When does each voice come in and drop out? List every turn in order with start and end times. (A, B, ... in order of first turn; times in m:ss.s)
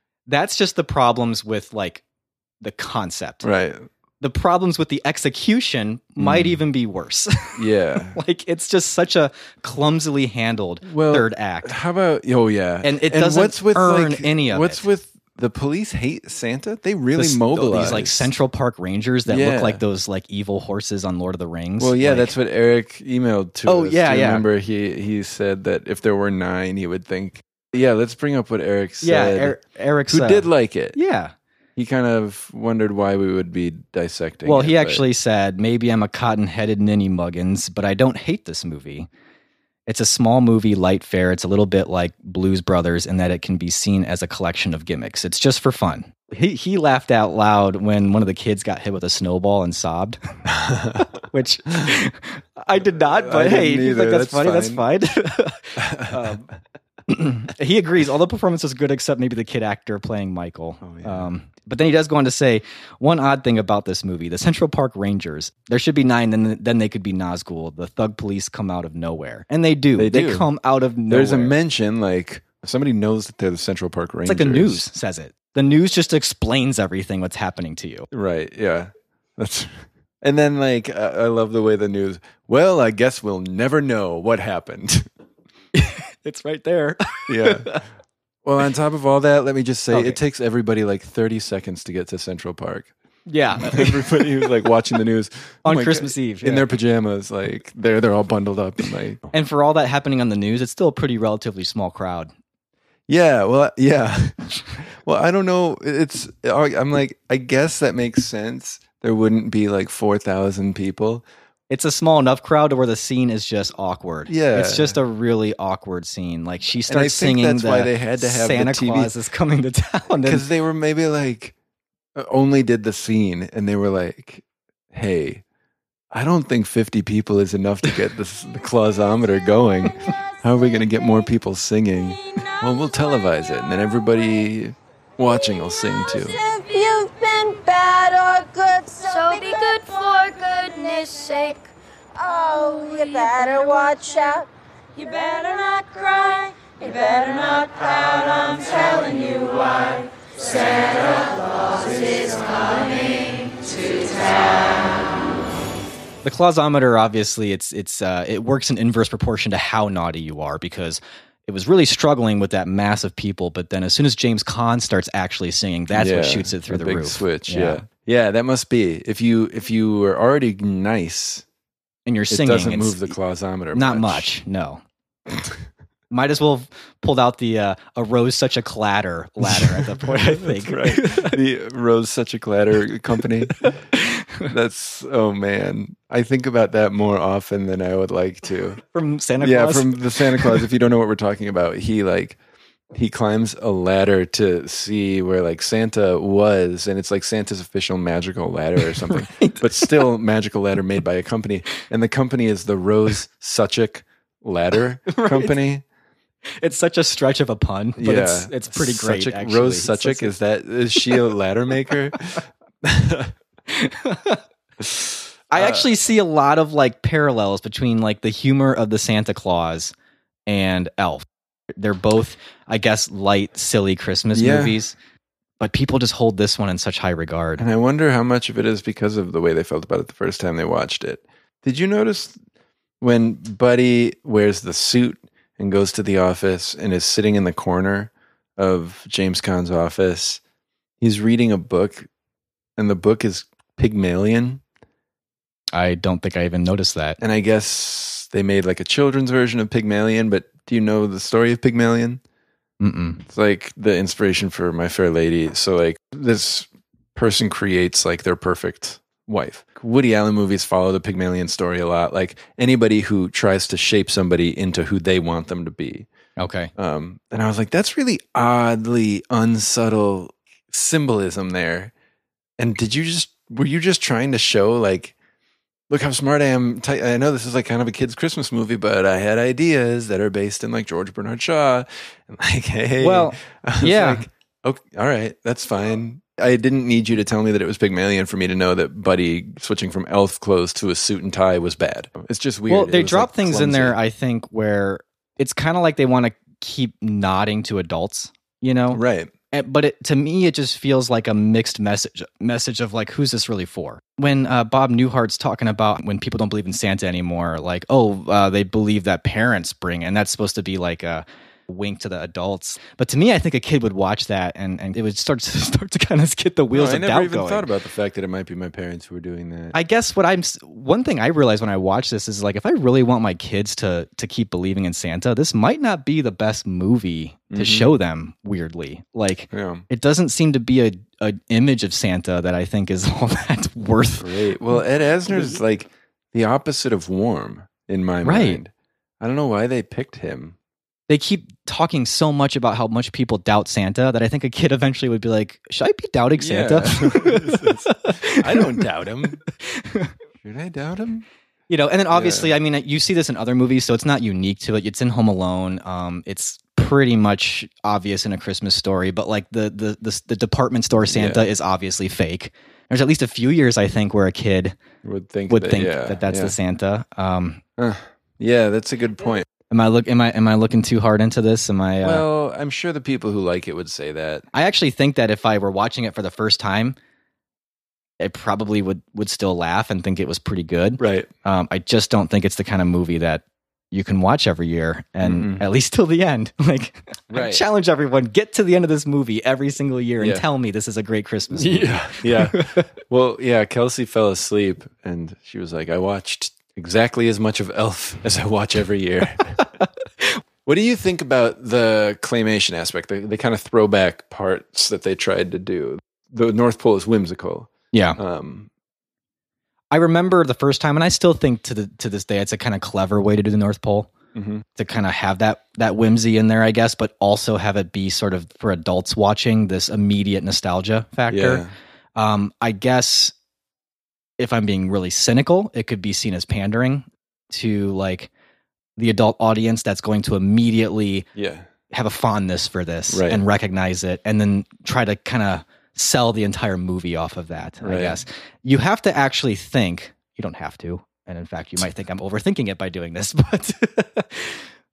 0:00.3-0:02.0 A
0:02.6-0:03.5 A
0:03.4-0:03.9 B
0:04.2-0:11.7 A
0:06.2-0:06.6 B
0:07.6-0:08.2 B
0:10.8-0:18.3 B
0:12.8-0:14.8 A
0:17.2-0:22.4 A
0:19.3-0:19.8 B
0:21.8-0:29.6 B
0:23.7-0:24.4 A
0:29.0-0:31.3 A
0:30.1-0:31.0 B
0:31.8-0:35.0 B
0:34.4-0:39.1 A
0:39.9-0:50.2 A
0:50.5-0:51.1 B
0:51.2-0:56.4 A
0:52.8-0:54.8 B
0:55.8-0:56.5 B
0:57.1-1:11.6 A
1:00.8-1:01.3 B
1:10.0-1:10.5 B
1:11.1-1:14.8 B
1:14.2-1:18.1 A
1:18.1-1:25.1 B
1:25.8-1:27.8 A
1:27.3-1:27.8 B
1:28.4-1:32.9 B
1:29.9-1:30.2 A
1:33.3-1:34.7 A
1:33.6-1:39.2 B
1:35.7-1:36.7 A
1:39.3-1:42.3 A
1:43.1-1:51.2 B
1:51.7-2:00.5 A
1:54.3-1:55.0 B
1:56.9-1:59.1 B
2:00.2-2:01.5 B
2:02.2-2:04.4 B
2:04.9-2:05.4 B
2:06.1-2:16.4 B
2:16.1-2:35.2 C
2:36.2-2:47.8 A
2:45.9-2:51.4 B
2:52.1-2:53.2 A
2:52.3-2:54.3 B
2:53.7-2:54.8 A
2:56.1-3:01.4 A
2:59.4-3:03.8 B
3:03.6-3:04.5 A
3:04.5-3:08.8 B
3:08.9-3:10.7 A
3:09.4-3:12.4 B
3:12.9-3:25.8 B
3:18.8-3:20.1 A
3:25.1-3:25.6 A
3:26.6-3:30.3 A
3:28.0-3:33.3 B
3:33.7-3:34.4 A
3:35.5-3:39.9 A
3:35.6-3:35.9 B
3:40.5-3:41.2 A
3:41.8-3:45.0 A
3:44.3-3:44.8 B
3:45.6-3:47.6 A
3:47.6-3:52.4 B
3:53.0-4:00.4 B
4:01.0-4:02.1 B
4:02.8-4:04.6 B
4:05.7-4:07.2 A
4:07.2-4:12.2 B
4:12.8-4:13.2 A
4:13.3-4:26.1 B
4:26.4-4:26.7 A
4:26.8-4:31.9 B
4:32.6-4:35.1 B
4:35.9-4:54.0 B
4:43.0-4:44.3 A
4:52.7-5:17.7 A
4:58.9-4:59.3 B
5:16.7-5:19.8 B
5:19.7-5:35.6 A
5:27.5-5:27.9 B
5:29.5-5:29.8 B
5:34.2-5:38.7 B
5:38.2-5:38.6 A
5:39.2-5:40.6 B
5:41.1-5:48.8 A
5:46.4-5:49.4 B
5:49.6-5:50.1 A
5:50.4-5:51.2 B
5:51.7-6:04.8 A
5:52.1-5:52.5 B
6:01.1-6:01.5 B
6:05.0-6:06.6 B
6:05.5-6:07.6 A
6:07.8-6:09.5 B
6:09.7-6:12.2 A
6:12.0-6:14.4 B
6:14.5-6:17.0 A
6:18.2-6:32.8 A
6:21.0-6:21.3 B
6:25.2-6:25.6 B
6:27.3-6:27.6 B
6:30.2-6:30.4 B
6:31.5-6:39.6 B
6:40.7-6:48.7 B
6:47.9-6:48.2 A
6:49.9-6:54.1 A
6:54.4-6:54.6 B
6:54.8-7:01.6 A
7:01.3-7:01.7 B
7:02.2-7:03.3 A
7:04.4-7:08.3 A
7:09.0-7:11.3 A
7:11.4-7:11.7 B
7:11.9-7:24.6 A
7:13.1-7:13.4 B
7:17.8-7:18.2 B